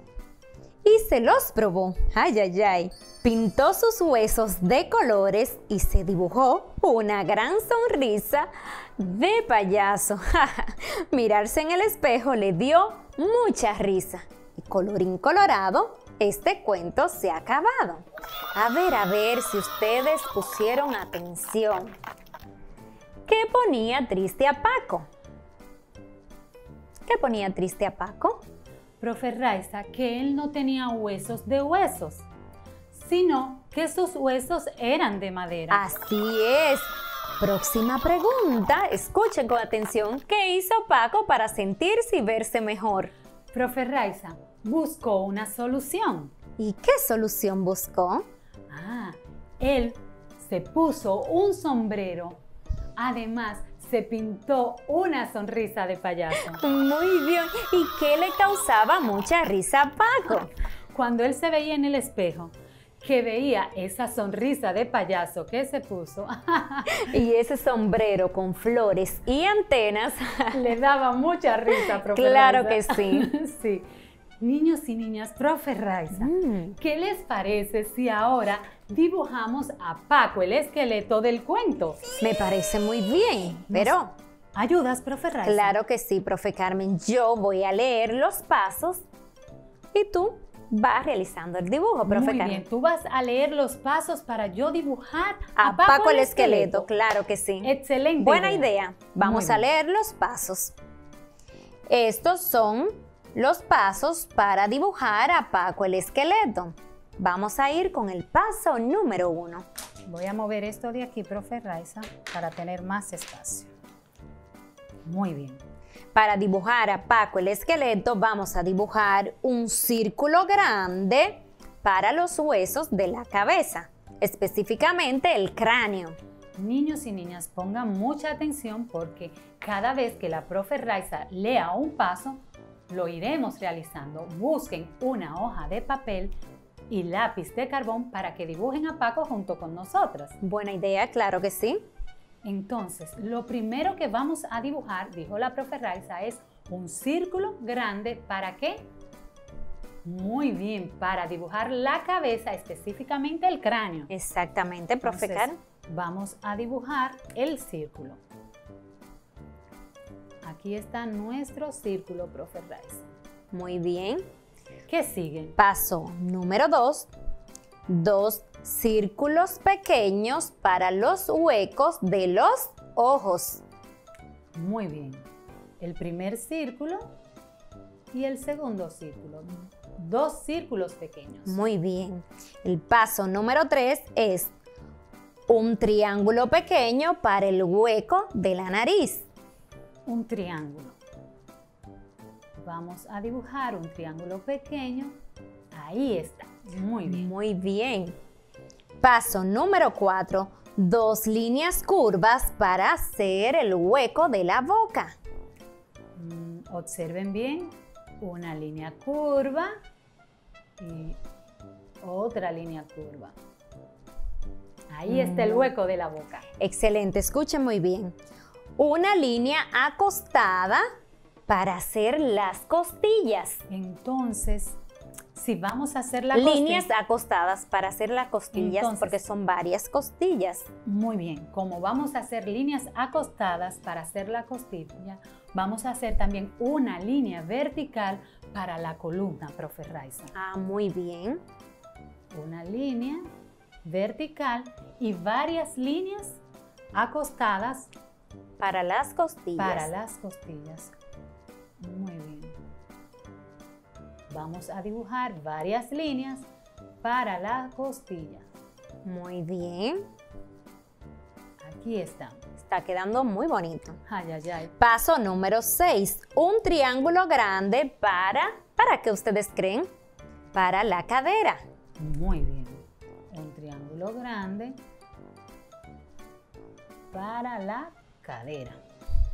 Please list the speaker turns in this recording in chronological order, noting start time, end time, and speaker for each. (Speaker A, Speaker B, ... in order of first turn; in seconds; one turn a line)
Speaker A: 0.8-21.9
Speaker A: 23.3-25.1
Speaker A: 27.1-28.4
Speaker B: 29.0-32.2
Speaker B: 32.9-35.8
Speaker A: 35.7-43.1
Speaker B: 43.5-46.3
Speaker A: 46.6-48.3
Speaker B: 48.7-52.4
Speaker B: 53.0-56.6
Speaker A: 56.5-60.5
Speaker B: 60.9-67.0
Speaker A: 67.0-70.6
Speaker B: 70.5-73.9
Speaker A: 71.7-73.3
Speaker B: 74.4-82.0
Speaker A: 76.1-76.8
Speaker A: 82.2-84.1
Speaker B: 83.7-84.0
Speaker B: 84.5-85.8
Speaker A: 85.4-89.0
Speaker A: 89.9-92.6
Speaker B: 92.0-96.9
Speaker A: 95.6-100.7
Speaker B: 97.6-99.7
Speaker A: 101.9-109.7
Speaker B: 110.1-113.7
Speaker B: 115.0-115.6
Speaker A: 116.1-126.2
Speaker B: 126.6-136.3
Speaker B: 136.9-140.3
Speaker A: 140.4-141.8
Speaker B: 142.4-148.9
Speaker B: 150.0-154.1
Speaker A: 154.1-155.6
Speaker B: 155.0-158.2
Speaker B: 160.4-163.1
Speaker A: 163.5-164.3
Speaker B: 164.9-165.6
Speaker A: 165.6-167.1
Speaker A: 167.9-173.6
Speaker B: 174.5-175.2
Speaker B: 175.8-177.1
Speaker B: 178.1-181.6
Speaker A: 181.4-184.5
Speaker A: 185.5-189.3
Speaker B: 190.1-191.0
Speaker B: 192.6-195.2
Speaker B: 195.7-197.3
Speaker A: 197.1-198.2
Speaker A: 199.0-205.2
Speaker B: 206.2-209.7
Speaker B: 210.8-211.2
Speaker B: 212.0-213.3
Speaker B: 214.9-216.4
Speaker A: 215.1-215.7
Speaker A: 216.6-218.2
Speaker A: 218.8-220.8
Speaker A: 221.5-223.6
Speaker B: 223.7-224.8
Speaker B: 225.3-226.9
Speaker A: 226.3-230.7
Speaker B: 228.5-229.2
Speaker B: 230.8-240.3
Speaker A: 240.3-241.4
Speaker B: 242.3-243.3
Speaker B: 243.8-246.4
Speaker B: 246.9-247.9
Speaker A: 248.6-249.9
Speaker B: 249.6-250.9
Speaker B: 251.8-252.5
Speaker B: 254.3-256.4
Speaker B: 257.0-258.4
Speaker A: 259.0-260.1
Speaker B: 261.6-262.4
Speaker A: 262.6-264.0
Speaker B: 264.1-264.7
Speaker A: 264.8-269.9
Speaker A: 270.5-271.6
Speaker B: 272.0-274.8
Speaker B: 277.1-278.8